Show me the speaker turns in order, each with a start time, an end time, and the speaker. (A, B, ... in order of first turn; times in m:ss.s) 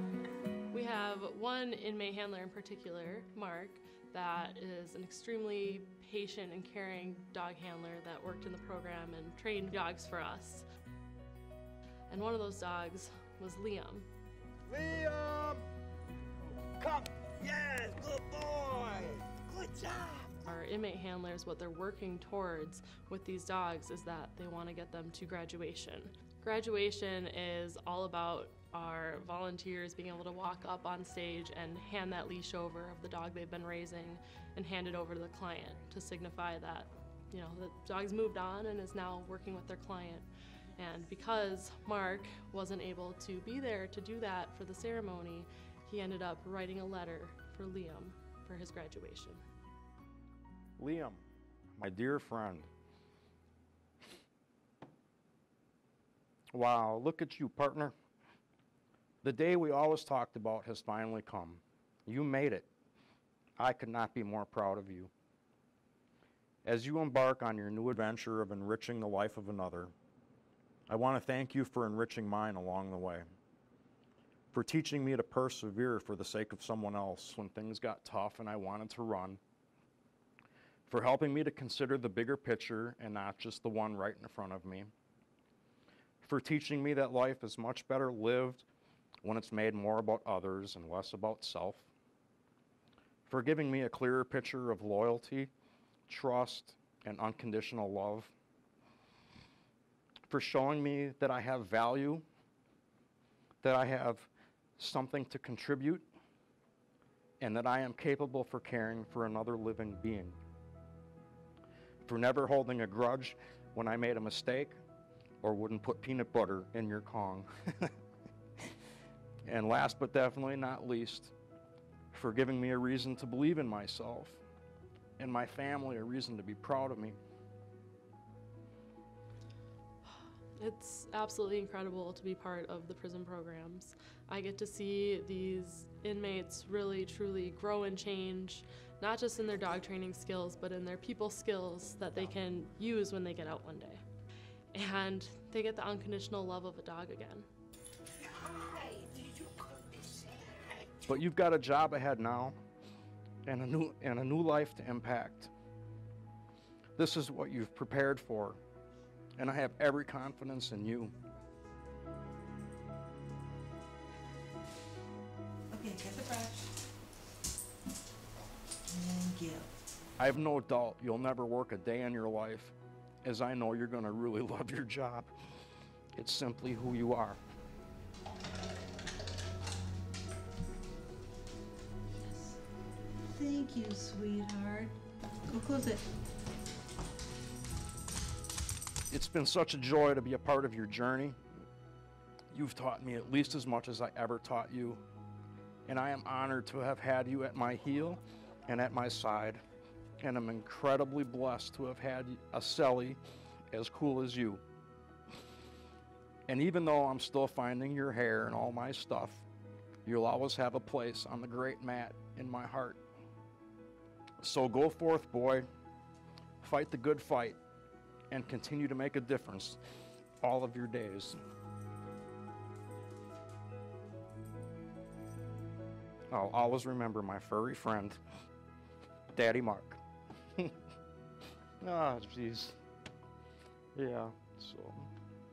0:00.7-0:10.7 A
0:12.1-0:14.1 A
0:14.7-0:15.6 B
0:16.8-0:20.4 B
0:20.4-0:49.4 A
0:50.8-0:51.2 C
0:51.8-0:52.7 C
0:56.5-0:57.9 C
0:59.2-1:02.7 C
1:03.6-1:05.1 C
1:06.6-1:09.9 C
1:10.9-1:13.3 C
1:14.5-1:19.4 C
1:20.9-1:24.9 C
1:26.2-1:28.6 C
1:29.2-1:31.9 C
1:33.3-1:35.5 C
1:36.1-1:38.3 C
1:40.3-1:42.2 C
1:43.6-1:46.1 C
1:47.4-1:50.4 C
1:52.0-1:54.8 C
1:55.4-1:58.0 C
1:59.4-2:01.3 C
2:02.1-2:04.4 C
2:05.2-2:07.2 C
2:10.1-2:24.0 A
2:24.7-2:27.5 A
2:31.1-2:32.6 C
2:33.5-2:35.5 C
2:37.0-2:38.6 C
2:39.4-2:41.1 C
2:45.7-2:46.7 D
2:48.9-2:49.7 D
2:50.2-2:55.3 C
2:56.2-2:57.4 C
3:02.2-3:02.6 D
3:03.3-3:05.0 D
3:05.5-3:06.0 D
3:09.1-3:11.4 C
3:12.5-3:15.0 C
3:15.9-3:19.6 C
3:20.2-3:24.6 C
3:26.5-3:29.5 C
3:30.0-3:33.0 C
3:34.4-3:35.7 C
3:36.6-3:37.6 C
3:38.3-3:39.8 C
3:40.4-3:41.4 C
3:46.3-3:48.2 C
3:49.3-3:50.0 C
3:51.8-3:52.8 C
3:54.0-3:55.1 C